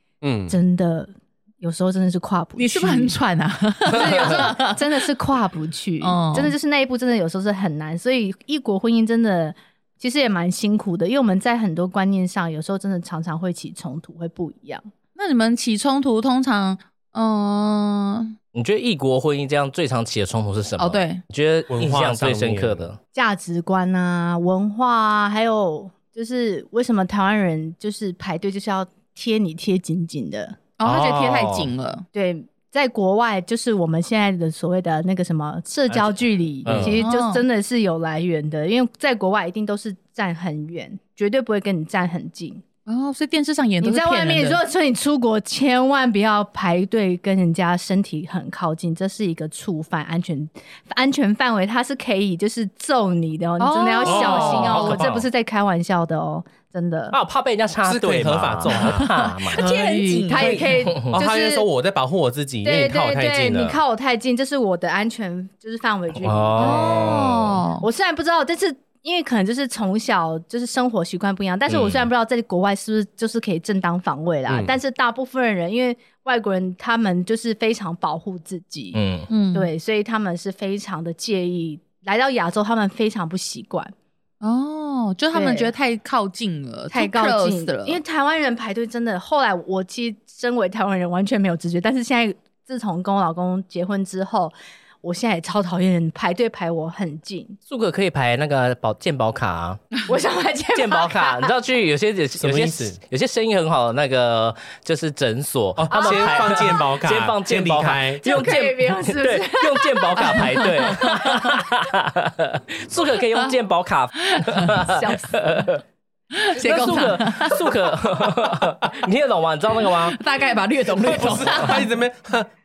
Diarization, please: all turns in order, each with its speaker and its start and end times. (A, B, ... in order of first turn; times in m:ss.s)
0:00.2-0:00.5 A
0:00.5-0:03.2 B
0:02.6-0:04.8 C
0:03.9-0:14.8 B
0:06.0-0:06.5 C
0:15.2-0:18.3 C
0:18.5-0:23.0 D
0:20.8-0:21.2 C
0:21.7-0:22.9 A
0:23.1-0:30.6 B
0:30.8-0:32.0 C
0:30.8-0:31.7 D
0:32.1-0:42.6 B
0:35.9-0:37.0 A
0:36.6-0:37.0 D
0:36.9-0:37.4 C
0:42.8-0:44.6 C
0:43.8-0:57.2 B
0:53.6-0:55.0 C
0:54.0-0:55.3 A
0:54.5-0:54.8 D
0:57.1-0:59.6 D
0:57.8-0:59.2 A
0:58.8-1:00.9 C
0:59.6-1:01.7 B
1:00.3-1:03.7 A
1:00.8-1:01.2 D
1:02.6-1:19.0 B
1:03.4-1:03.8 D
1:06.2-1:07.4 D
1:06.6-1:07.8 C
1:11.7-1:12.1 D
1:14.5-1:14.7 A
1:18.9-1:19.3 D
1:19.3-1:19.7 C
1:19.5-1:23.9 B
1:24.4-1:28.0 C
1:25.3-1:25.7 B
1:26.9-1:37.6 B
1:37.7-1:39.9 D
1:40.0-1:41.5 B
1:40.7-1:55.8 D
1:42.4-1:43.0 A
1:45.8-1:48.2 A
1:45.9-1:46.7 B
1:48.2-1:50.4 B
1:50.2-1:51.4 C
1:54.3-1:54.7 C
1:54.9-1:55.3 B
1:56.3-1:57.6 C
1:56.5-2:00.2 D
2:00.1-2:01.8 C
2:01.0-2:02.5 A
2:01.2-2:01.6 D